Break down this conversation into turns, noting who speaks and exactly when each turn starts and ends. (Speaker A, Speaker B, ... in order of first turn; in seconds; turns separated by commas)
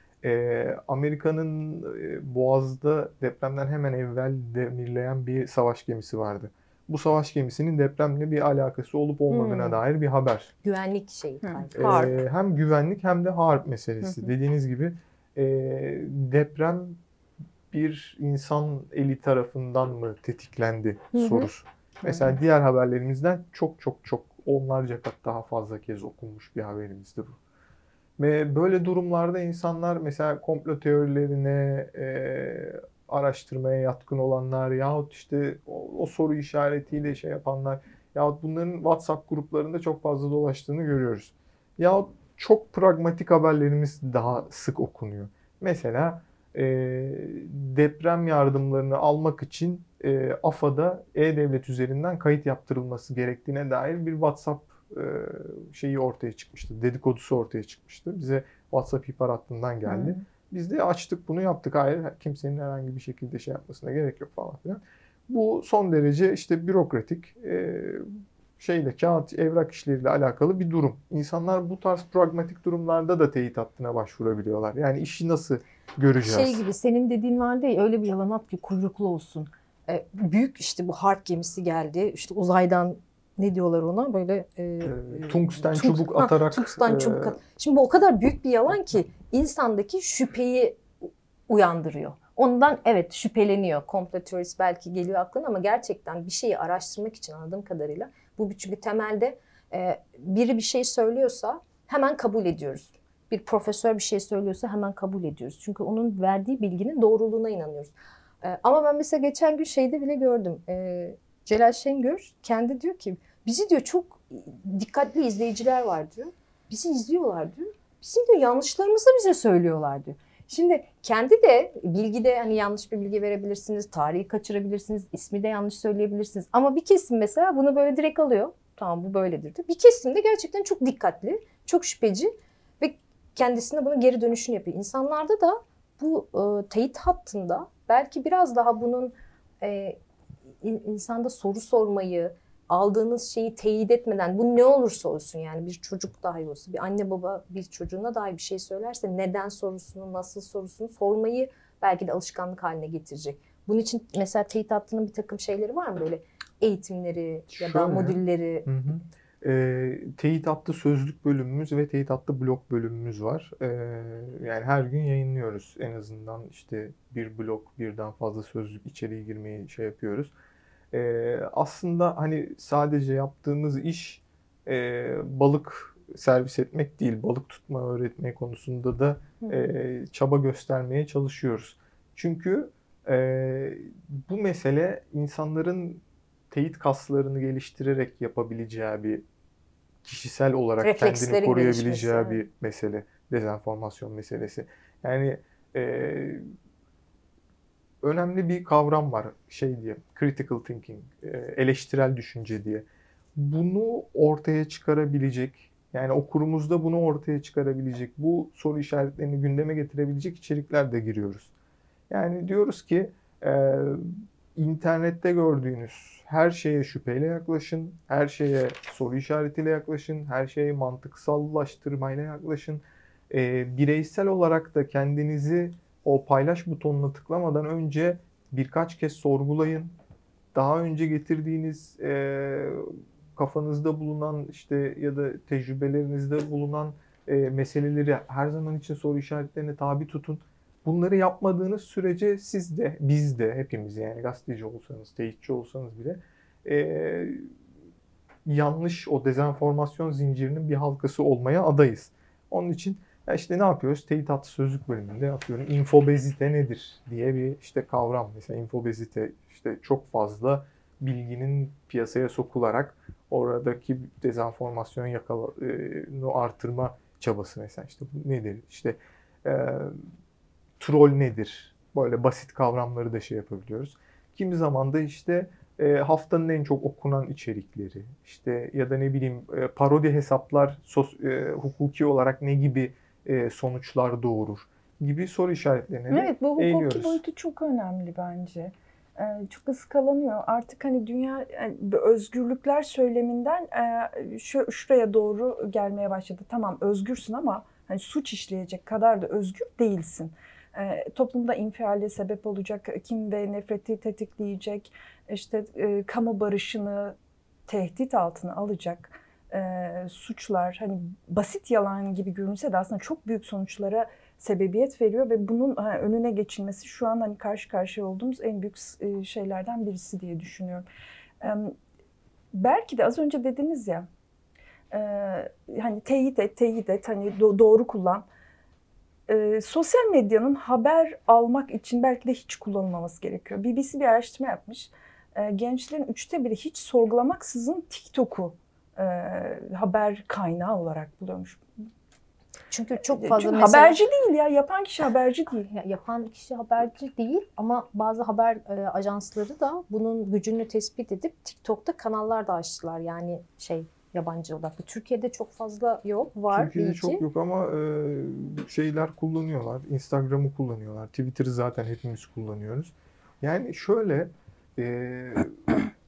Speaker A: 0.2-10.5, Speaker B: 9.3-9.8, Speaker B: 10.6-12.2, Speaker C: 11.4-12.1, Speaker A: 11.8-17.0, Speaker A: 17.7-27.4, Speaker B: 21.1-21.5, Speaker A: 28.2-68.0, Speaker C: 59.9-60.2, Speaker A: 68.6-76.6, Speaker B: 76.2-140.0, Speaker A: 84.8-87.4, Speaker B: 140.6-158.7, Speaker A: 157.6-170.3, Speaker A: 170.9-189.2, Speaker A: 190.0-196.5, Speaker B: 190.8-192.4, Speaker A: 198.0-211.5, Speaker A: 212.1-229.9, Speaker A: 230.5-247.5, Speaker A: 248.4-270.0, Speaker A: 270.8-287.2, Speaker C: 286.1-307.1, Speaker C: 307.7-320.9, Speaker C: 321.4-321.8, Speaker C: 322.5-324.1, Speaker C: 324.9-328.2, Speaker C: 329.3-341.6, Speaker B: 342.7-344.0, Speaker C: 343.1-345.7, Speaker B: 345.7-357.2, Speaker A: 356.5-365.8